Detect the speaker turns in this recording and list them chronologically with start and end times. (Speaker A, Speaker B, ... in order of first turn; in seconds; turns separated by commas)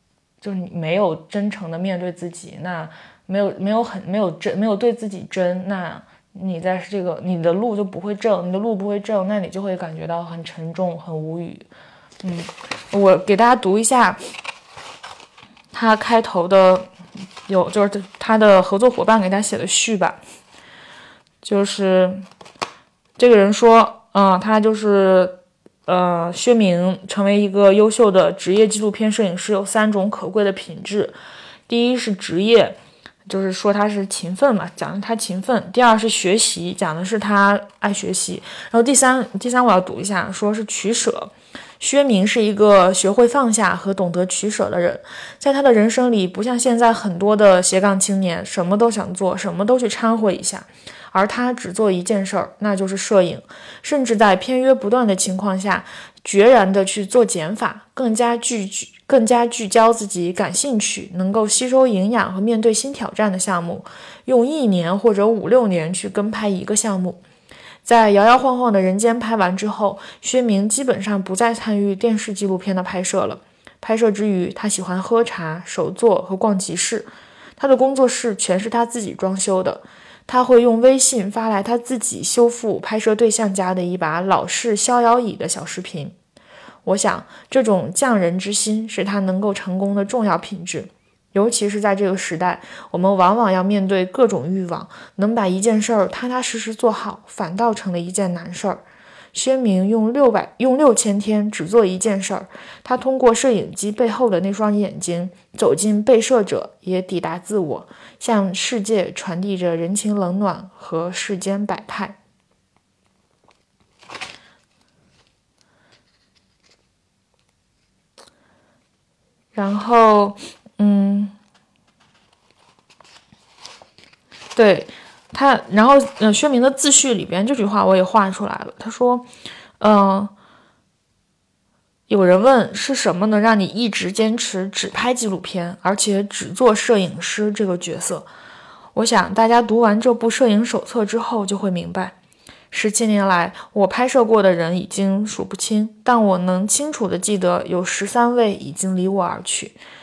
Speaker A: 0.4-11.7, Speaker A: 12.2-14.2, Speaker A: 15.7-16.9, Speaker A: 17.5-20.2, Speaker A: 21.4-22.2, Speaker A: 23.2-31.1, Speaker A: 31.7-67.2, Speaker A: 67.8-86.1, Speaker A: 86.8-98.8, Speaker A: 99.3-112.2, Speaker A: 119.5-121.3, Speaker A: 124.5-129.2, Speaker A: 129.8-130.3, Speaker A: 132.1-138.3, Speaker A: 138.9-142.1, Speaker A: 142.7-149.8